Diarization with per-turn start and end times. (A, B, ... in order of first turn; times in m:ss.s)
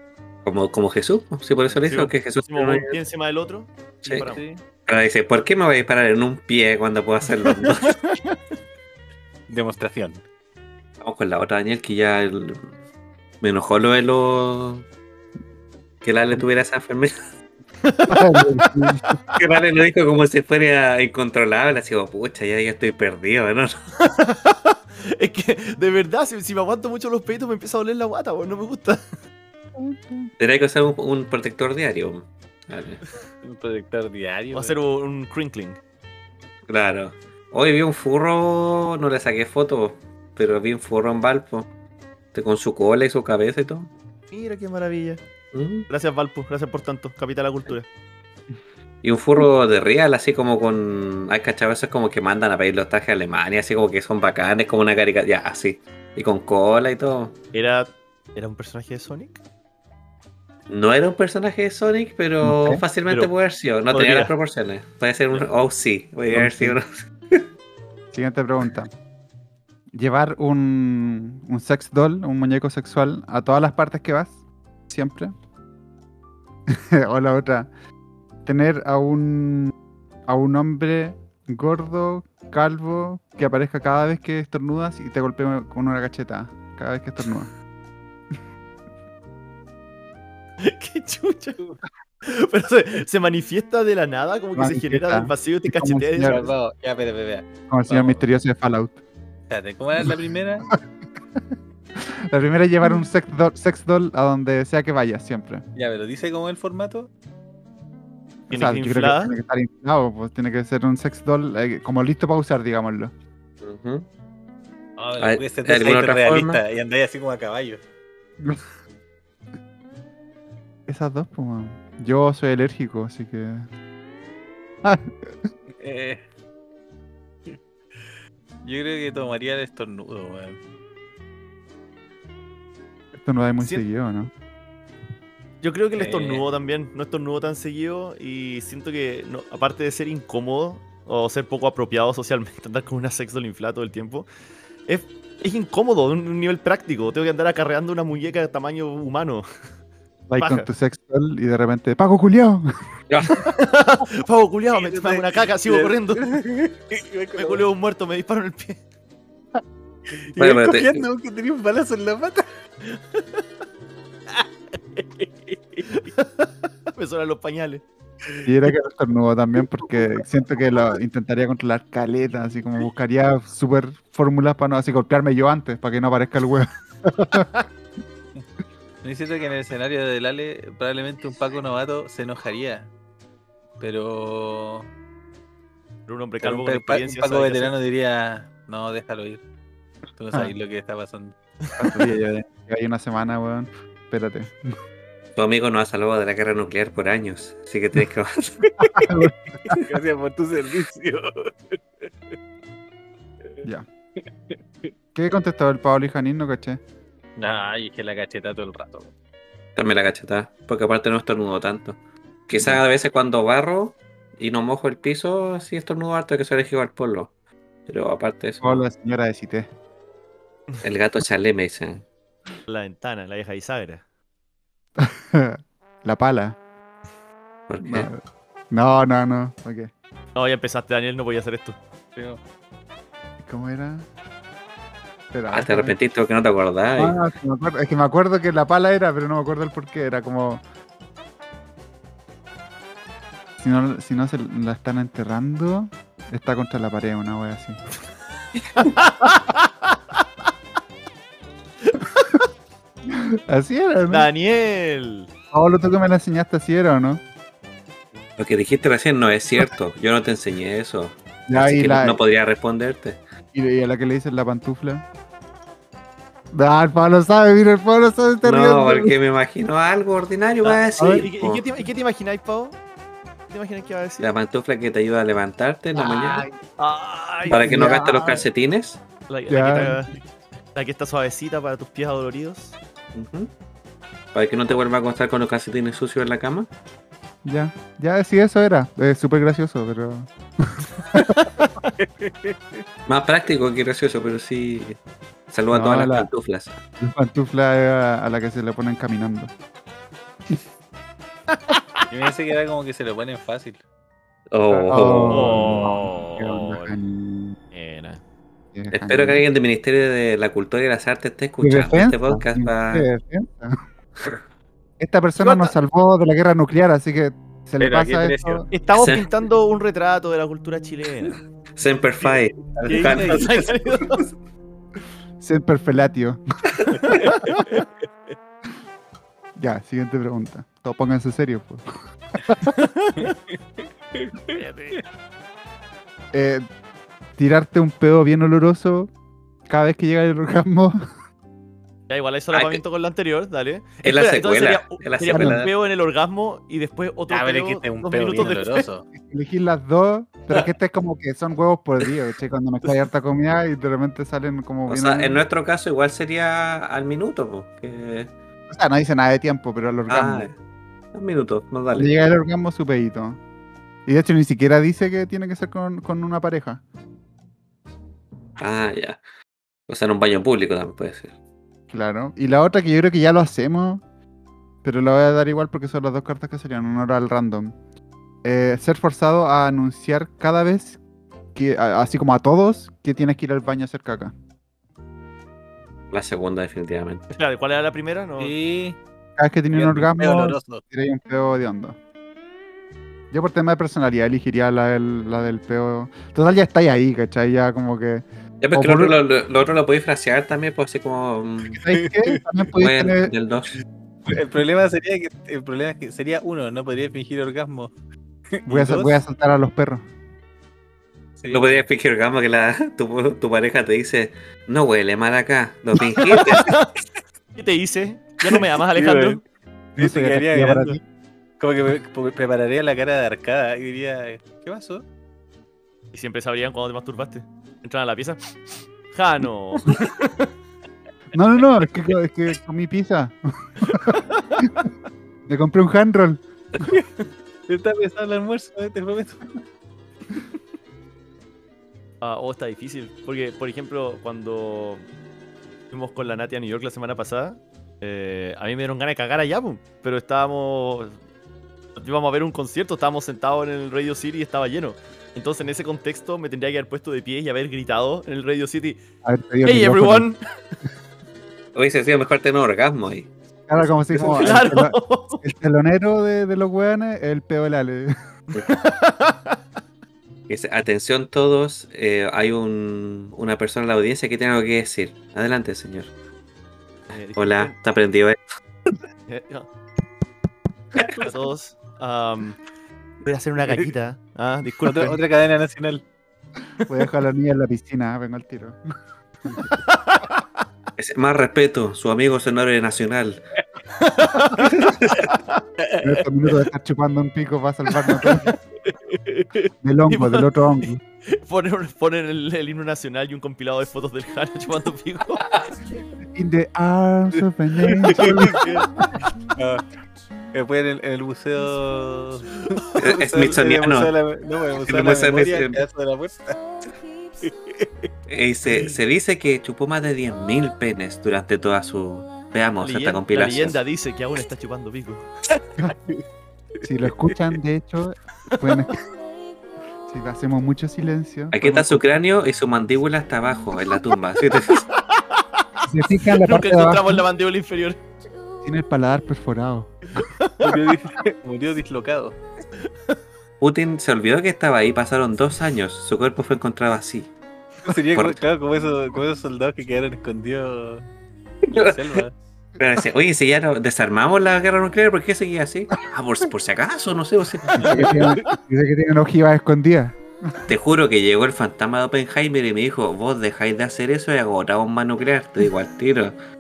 0:00.4-0:03.0 A
0:01.8-0:04.4 B
0:04.2-0:04.6 C
0:04.9-0:08.0 A
0:09.5-0:10.2 C
0:11.0-0:12.7 A
0:13.4-0:14.8 A
0:16.0-0:17.1 A
0:17.8-0:19.2 B
0:18.1-0:19.2 D
0:19.3-0:23.8 A
0:24.0-0:29.0 B
0:29.8-0:30.3 D
0:30.4-0:33.0 A
0:33.4-0:34.8 C
0:34.5-0:35.8 B
0:36.7-0:41.7 A
0:42.3-0:43.9 A
0:44.3-0:45.2 B
0:45.5-0:45.9 A
0:45.9-0:47.9 B
0:49.0-0:57.4 A
0:57.5-0:59.4 B
1:00.7-1:07.5 A
1:02.4-1:02.8 D
1:03.9-1:04.3 B
1:06.3-1:06.8 D
1:08.1-1:08.9 D
1:09.9-1:14.4 D
1:14.9-1:15.3 D
1:16.7-1:17.7 D
1:18.4-1:19.7 D
1:20.3-1:27.5 D
1:30.6-1:31.6 B
1:32.2-1:36.5 B
1:34.6-1:36.4 D
1:36.2-1:38.2 C
1:37.7-1:39.0 D
1:39.5-1:40.7 C
1:42.0-1:45.6 D
1:45.8-1:47.1 C
1:48.5-1:49.4 B
1:48.5-1:53.1 D
1:53.6-1:54.1 A
1:55.0-1:57.8 C
1:55.2-1:56.6 A
2:00.9-2:03.7 D
2:04.8-2:05.5 D
2:05.8-2:06.2 C
2:08.6-2:10.6 C
2:13.2-2:14.3 D
2:15.6-2:24.3 B
2:16.0-2:16.4 C
2:24.9-2:29.5 B
2:30.3-2:32.7 D
2:30.4-2:30.7 B
2:33.1-2:33.5 A
2:33.3-2:36.2 B
2:34.7-2:37.7 C
2:37.4-2:38.8 B
2:40.1-2:42.5 C
2:40.4-2:41.0 A
2:42.9-2:43.4 B
2:44.3-2:45.1 B
2:45.8-2:47.8 B
2:48.4-2:57.5 D
2:59.0-3:02.9 C
3:03.8-3:04.9 C
3:06.1-3:07.7 B
3:06.4-3:09.4 C
3:10.2-3:11.4 C
3:11.8-3:14.7 D
3:15.4-3:18.8 A
3:18.8-3:19.8 D
3:19.7-3:21.8 C
3:24.5-3:24.9 C
3:25.2-3:26.8 D
3:27.4-3:29.1 C
3:29.8-3:32.0 A
3:32.5-3:37.3 A
3:37.9-3:38.8 A
3:38.6-3:39.7 D
3:40.8-3:42.0 A
3:42.7-3:44.0 B
3:45.0-3:46.6 D
3:47.7-3:48.1 A
3:47.8-3:49.9 D
3:50.4-3:51.8 B
3:52.2-3:52.4 C
3:53.4-3:54.1 D
3:55.3-3:56.0 D
3:55.5-3:57.2 A
3:57.0-4:00.6 D
4:03.6-4:07.8 D
4:08.8-4:10.0 B
4:11.8-4:12.4 B
4:13.1-4:14.3 D
4:14.1-4:15.3 B
4:15.5-4:17.2 D
4:18.4-4:23.2 A
4:21.5-4:22.2 D
4:23.5-4:25.0 D
4:26.5-4:29.2 D
4:28.4-4:31.6 A
4:30.6-4:32.8 B
4:31.0-4:31.3 D
4:33.5-4:34.3 B
4:34.2-4:36.5 A
4:36.0-4:38.4 B
4:37.5-4:39.0 A
4:37.5-4:38.3 D
4:39.3-4:40.1 B
4:39.5-4:40.0 D
4:40.8-4:42.8 B
4:43.1-4:43.5 A
4:44.3-4:46.7 A
4:47.4-4:51.4 D
4:51.2-4:51.9 B
4:52.0-4:52.8 C
4:53.1-4:55.0 A
4:55.5-4:56.8 A
4:55.7-4:56.3 D
4:57.0-4:59.5 D
5:02.1-5:03.8 C
5:04.5-5:05.6 A
5:04.7-5:07.6 D
5:05.3-5:07.0 B
5:07.7-5:08.2 B
5:08.7-5:09.4 D
5:08.9-5:13.1 A
5:11.6-5:13.8 D
5:15.0-5:18.7 D
5:15.4-5:15.7 B
5:17.8-5:18.7 C
5:18.7-5:21.4 B
5:18.9-5:19.3 A
5:21.8-5:23.7 A
5:22.9-5:23.5 C
5:22.9-5:24.2 B
5:25.4-5:26.4 D
5:27.0-5:27.8 B
5:29.6-5:31.8 D
5:32.3-5:32.7 D
5:32.6-5:33.4 B
5:34.2-5:34.6 C
5:34.5-5:35.0 B
5:36.3-5:36.6 D
5:37.4-5:39.1 D
5:39.7-5:41.0 D
5:42.1-5:48.9 B
5:42.5-5:42.8 A
5:44.0-5:45.7 A
5:45.3-5:45.6 D
5:47.3-5:49.1 C
5:49.1-5:55.4 D
5:54.9-5:58.3 A
5:58.7-6:00.5 D
6:00.1-6:00.6 A
6:01.1-6:02.1 A
6:02.0-6:03.4 D
6:04.1-6:06.8 D
6:08.6-6:09.2 A
6:09.9-6:11.3 A
6:11.9-6:14.0 D
6:14.8-6:17.8 D
6:18.4-6:21.0 D
6:21.6-6:24.3 D
6:26.1-6:27.2 A
6:27.3-6:28.5 B
6:28.4-6:29.0 C
6:29.4-6:32.0 D
6:29.7-6:30.8 C
6:33.3-6:39.2 D
6:38.6-6:41.8 A
6:41.7-6:43.3 D
6:41.9-6:42.4 C
6:42.8-6:43.7 A
6:44.3-6:47.9 C
6:48.6-6:49.2 C
6:48.7-6:50.0 D
6:51.4-6:51.8 C
6:51.5-6:56.7 A
6:56.2-6:56.9 B
6:57.6-6:59.4 B
6:58.9-6:59.4 C
7:00.0-7:01.0 C
7:00.0-7:01.0 D
7:01.6-7:05.0 C
7:06.1-7:08.4 B
7:09.1-7:10.5 B
7:11.3-7:14.7 D
7:13.9-7:14.7 B
7:15.5-7:16.4 D
7:17.7-7:19.4 C
7:22.2-7:25.1 B
7:25.9-7:31.2 B
7:32.0-7:39.0 B
7:39.2-7:40.3 D
7:39.6-7:40.4 B
7:41.8-7:43.3 A
7:43.7-7:48.1 D
7:44.1-7:45.4 B
7:48.5-7:49.6 B
7:50.5-7:56.1 A
7:57.1-7:57.8 B
7:57.4-7:58.4 A
7:59.3-7:59.7 B
8:01.2-8:02.6 B
8:03.2-8:05.2 B
8:04.8-8:06.0 C
8:06.8-8:08.8 D
8:09.7-8:10.4 B
8:11.0-8:13.4 A
8:14.0-8:15.6 B
8:14.6-8:15.3 A
8:16.0-8:18.6 D
8:19.1-8:19.4 B
8:19.8-8:21.0 D
8:20.1-8:20.5 B
8:21.3-8:25.4 B
8:26.3-8:28.7 D
8:27.9-8:28.8 C
8:28.2-8:29.0 B
8:29.6-8:29.8 C
8:30.5-8:36.6 C
8:33.0-8:34.1 A
8:34.8-8:35.8 A
8:37.4-8:38.1 C
8:38.3-8:43.8 A
8:42.8-8:45.2 B
8:46.8-8:48.9 D
8:50.1-8:52.0 D
8:51.5-8:54.8 A
8:54.9-8:55.7 B
8:55.9-8:57.2 D
8:56.3-8:58.0 B
8:58.6-8:59.9 D
9:00.2-9:00.8 B
9:00.6-9:02.4 C
9:03.6-9:07.3 A
9:07.8-9:11.1 C
9:11.7-9:12.2 A
9:11.7-9:12.4 C
9:12.8-9:18.1 A
9:17.7-9:20.6 D
9:17.8-9:18.3 C
9:20.7-9:26.4 A